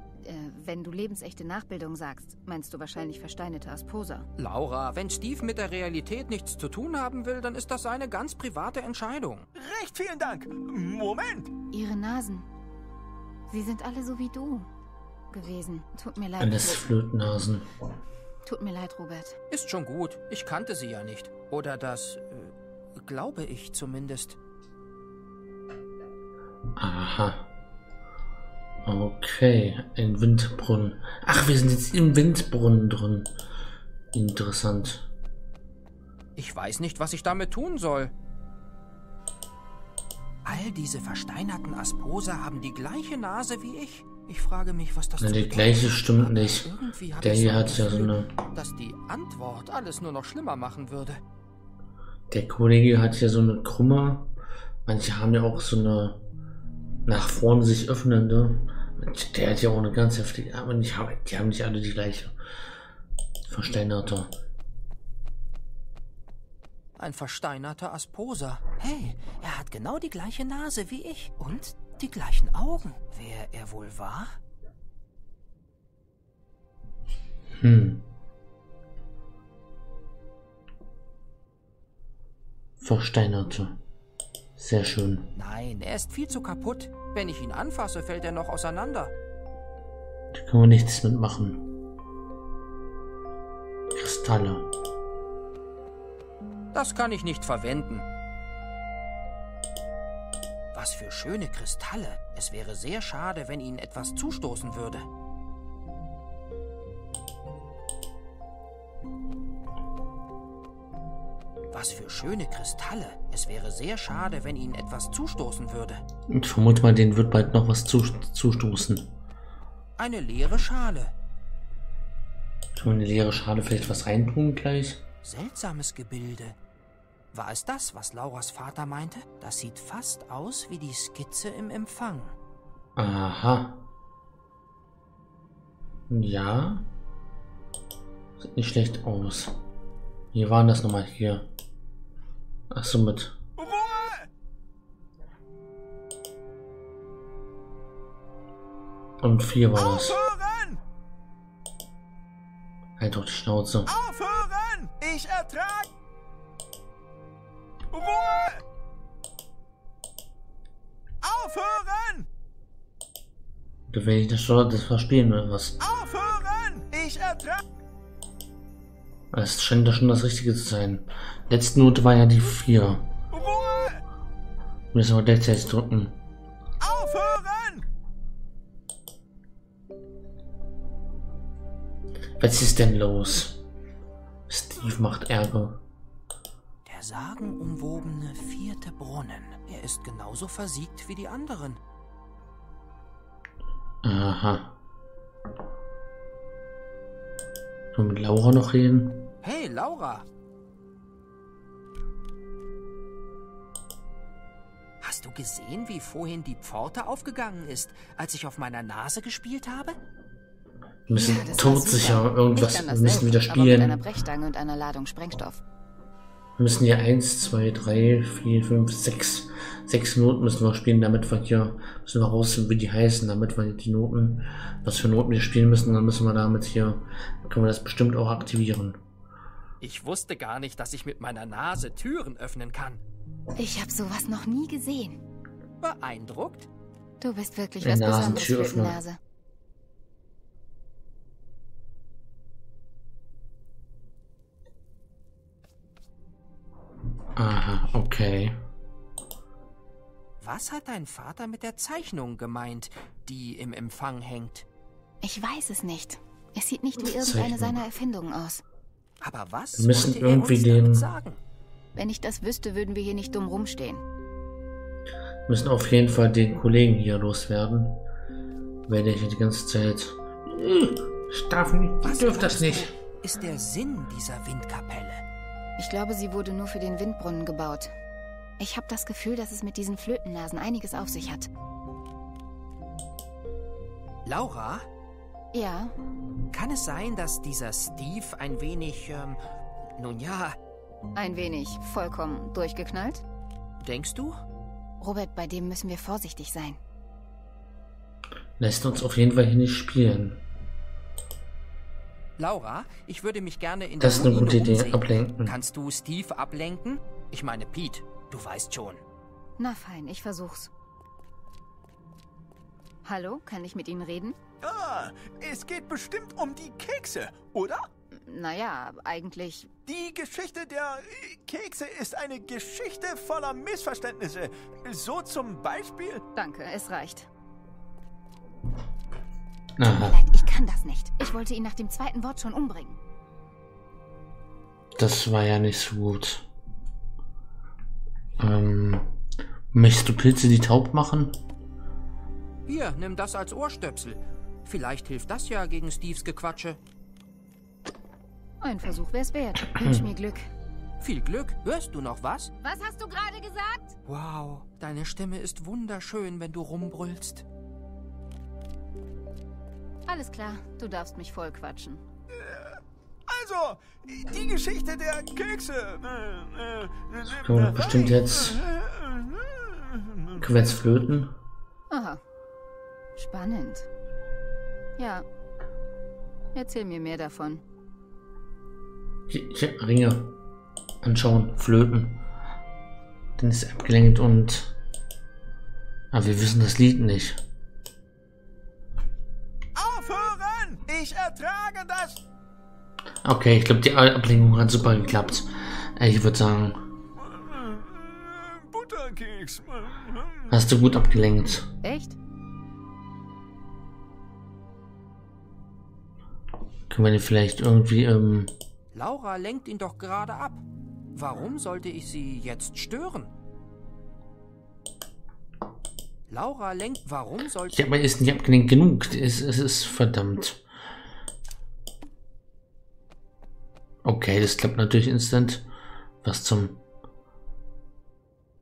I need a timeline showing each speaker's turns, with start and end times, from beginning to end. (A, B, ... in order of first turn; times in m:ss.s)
0:00.2-0:04.3 A
0:04.4-0:09.4 B
0:09.5-0:11.5 C
0:11.7-0:12.5 A
0:13.5-0:14.7 A
0:15.3-0:16.9 A
0:16.4-0:17.7 D
0:18.4-0:19.4 A
0:19.5-0:24.4 B
0:26.8-0:27.5 D
0:28.8-0:33.3 D
0:34.1-0:35.1 D
0:36.4-0:38.1 B
0:40.4-0:51.2 B
0:45.2-0:48.3 D
0:52.3-0:54.3 D
0:54.8-0:56.2 D
0:57.0-1:02.4 D
1:03.5-1:04.3 D
1:07.0-1:14.4 B
1:17.5-1:18.0 D
1:22.8-1:23.8 D
1:24.6-1:25.3 D
1:25.3-1:29.1 B
1:30.3-1:31.7 D
1:33.9-1:34.7 D
1:36.7-1:38.0 B
1:40.7-1:45.1 B
1:51.7-1:56.0 B
1:56.3-1:59.1 D
2:00.0-2:01.1 B
2:02.7-2:05.0 D
2:05.2-2:06.6 B
2:07.3-2:12.4 B
2:13.0-2:13.8 D
2:16.1-2:16.8 D
2:18.4-2:19.5 D
2:20.3-2:21.5 D
2:22.7-2:23.4 D
2:23.6-2:24.3 C
2:29.2-2:30.2 D
2:29.7-2:30.8 C
2:33.0-2:33.9 D
2:33.8-2:35.9 C
2:37.9-2:38.6 C
2:41.2-2:42.3 C
2:43.9-2:45.8 D
2:45.8-2:47.6 C
2:49.3-2:53.1 D
2:53.3-2:54.0 C
2:54.9-2:56.2 D
2:56.8-2:57.8 C
3:02.4-3:03.6 D
3:04.5-3:05.8 D
3:06.8-3:11.8 B
3:14.0-3:14.8 D
3:17.9-3:19.3 D
3:19.4-3:20.2 B
3:25.0-3:30.0 B
3:31.1-3:34.0 D
3:31.1-3:35.6 A
3:36.6-3:49.0 D
3:49.8-3:53.0 B
3:53.6-3:55.2 A
3:55.8-3:56.7 B
3:57.2-3:59.2 A
3:57.8-3:59.0 D
4:07.4-4:08.6 D
4:10.4-4:14.6 B
4:15.2-4:18.6 A
4:17.0-4:17.8 D
4:19.2-4:21.4 B
4:19.8-4:21.1 D
4:22.0-4:24.0 A
4:25.5-4:28.0 D
4:28.9-4:32.9 D
4:32.0-4:35.2 B
4:35.8-4:37.9 A
4:38.6-4:41.5 A
4:44.2-4:44.8 B
4:45.5-4:45.9 A
4:46.5-4:49.4 B
4:50.0-4:50.6 B
4:51.1-4:53.2 A
4:53.8-4:54.4 B
4:55.0-4:56.8 A
4:58.6-5:00.4 D
5:02.4-5:09.0 B
5:04.0-5:05.6 D
5:09.6-5:10.7 A
5:13.0-5:14.4 A
5:14.6-5:17.9 C
5:18.1-5:19.7 A
5:19.8-5:26.2 C
5:26.3-5:27.3 A
5:29.8-5:30.2 D
5:30.0-5:33.0 A
5:35.0-5:36.4 D
5:38.4-5:39.1 D
5:39.7-5:41.4 D
5:42.6-5:46.8 B
5:48.6-5:50.5 A
5:49.6-5:50.0 D
5:51.0-5:52.5 B
5:52.6-5:54.0 A
5:54.0-5:57.4 B
6:00.1-6:02.0 A
6:02.3-6:10.5 C
6:07.2-6:08.6 D
6:10.4-6:11.3 D
6:11.9-6:12.2 A
6:13.2-6:13.9 A
6:15.0-6:15.2 A
6:16.5-6:17.6 A
6:19.3-6:20.4 D
6:21.0-6:22.2 D
6:23.4-6:24.8 D
6:26.1-6:27.4 D
6:29.7-6:32.2 C
6:33.2-6:36.8 D
6:37.2-6:40.5 C
6:40.5-6:41.7 D
6:41.8-6:42.2 A
6:46.9-6:48.5 D
6:48.9-6:50.6 B
6:51.1-6:53.3 B
6:56.3-6:57.9 B
6:57.7-7:00.6 D
7:04.0-7:05.6 D
7:06.2-7:06.8 D